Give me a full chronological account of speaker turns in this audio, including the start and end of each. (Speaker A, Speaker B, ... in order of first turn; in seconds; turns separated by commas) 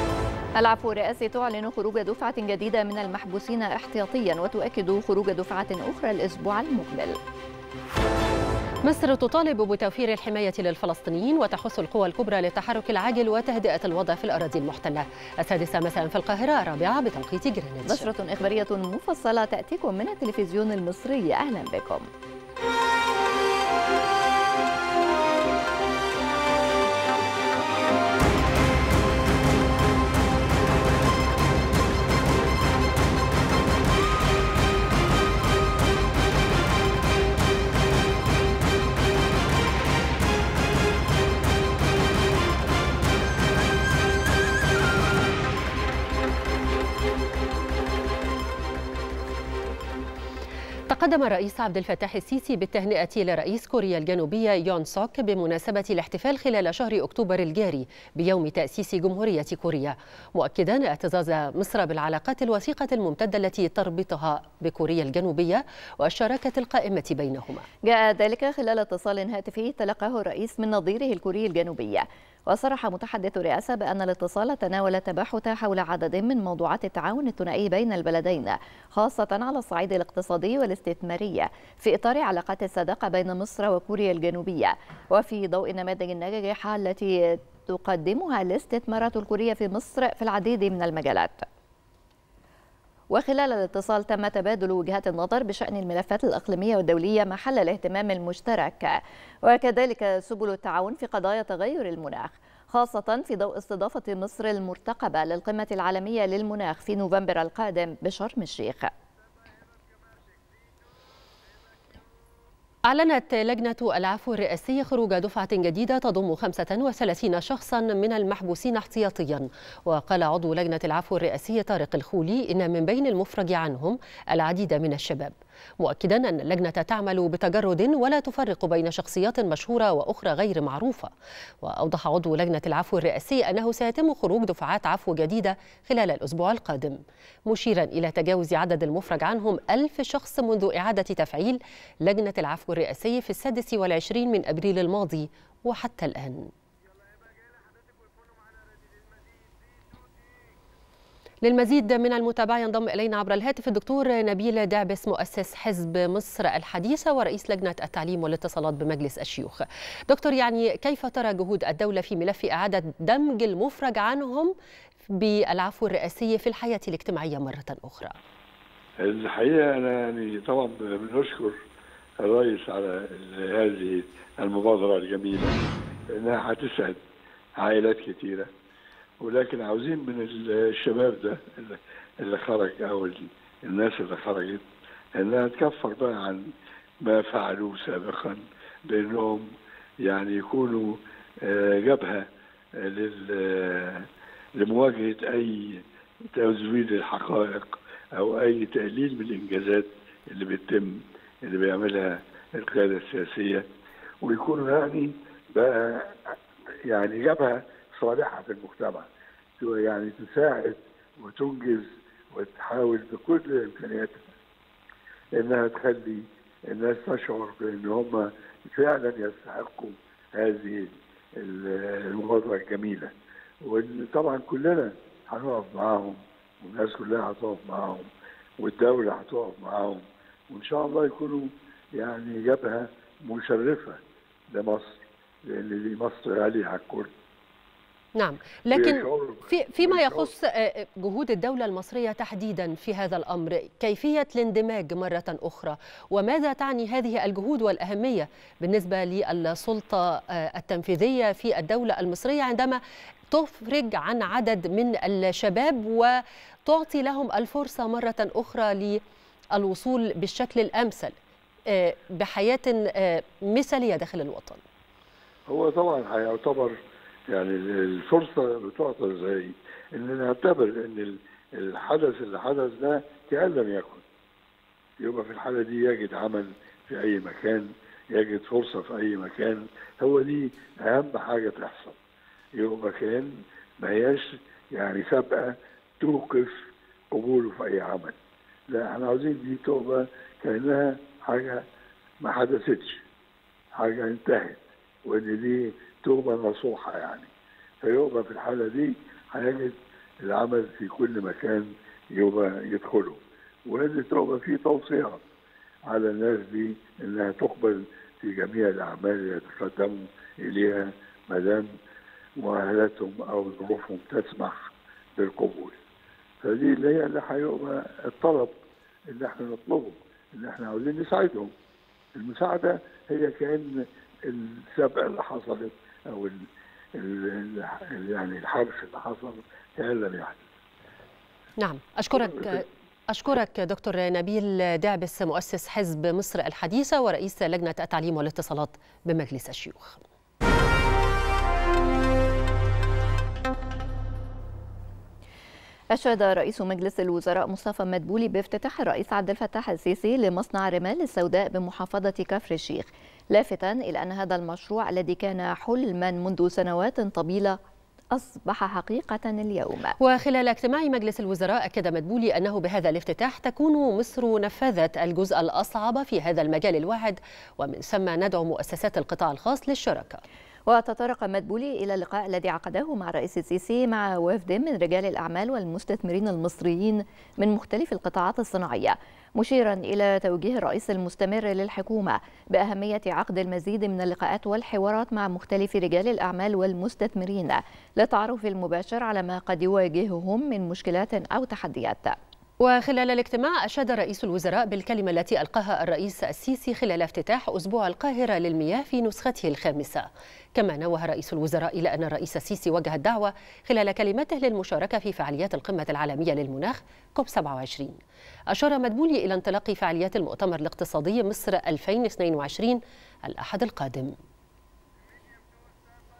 Speaker A: 0.6-7.2, Speaker B: 8.8-18.1, Speaker A: 17.9-22.1, Speaker B: 50.9-67.7, Speaker A: 67.8-91.4, Speaker A: 93.1-108.9, Speaker B: 112.9-131.1, Speaker B: 131.6-146.5, Speaker B: 151.4-164.5, Speaker B: 165.1-168.2, Speaker C: 169.0-171.6, Speaker C: 172.2-175.6, Speaker C: 176.1-177.0, Speaker C: 177.6-178.5, Speaker C: 179.2-184.6, Speaker C: 185.2-186.4, Speaker C: 187.0-189.5, Speaker C: 190.0-192.2, Speaker C: 192.8-194.1, Speaker C: 194.6-195.8, Speaker C: 196.3-203.6, Speaker C: 204.2-206.3, Speaker C: 206.9-209.1, Speaker C: 209.6-214.2, Speaker C: 215.3-223.1, Speaker C: 223.6-234.0, Speaker C: 234.5-237.1, Speaker B: 238.2-252.8, Speaker C: 238.7-240.3, Speaker B: 253.3-256.1, Speaker B: 256.6-259.0, Speaker B: 259.5-261.1, Speaker B: 261.7-264.6, Speaker C: 265.5-266.8, Speaker C: 267.3-274.0, Speaker C: 275.0-282.0, Speaker C: 282.6-286.5, Speaker C: 287.1-288.1, Speaker C: 288.7-291.6, Speaker C: 292.2-293.0, Speaker C: 293.7-297.3, Speaker C: 297.8-305.2, Speaker C: 305.9-311.7, Speaker C: 312.4-315.8, Speaker C: 316.4-318.5, Speaker C: 319.1-321.5, Speaker C: 322.1-330.4, Speaker B: 331.6-340.0, Speaker A: 345.9-357.6, Speaker A: 358.1-359.9, Speaker B: 360.0-370.2, Speaker A: 370.7-392.2, Speaker B: 392.6-408.0, Speaker B: 408.5-414.1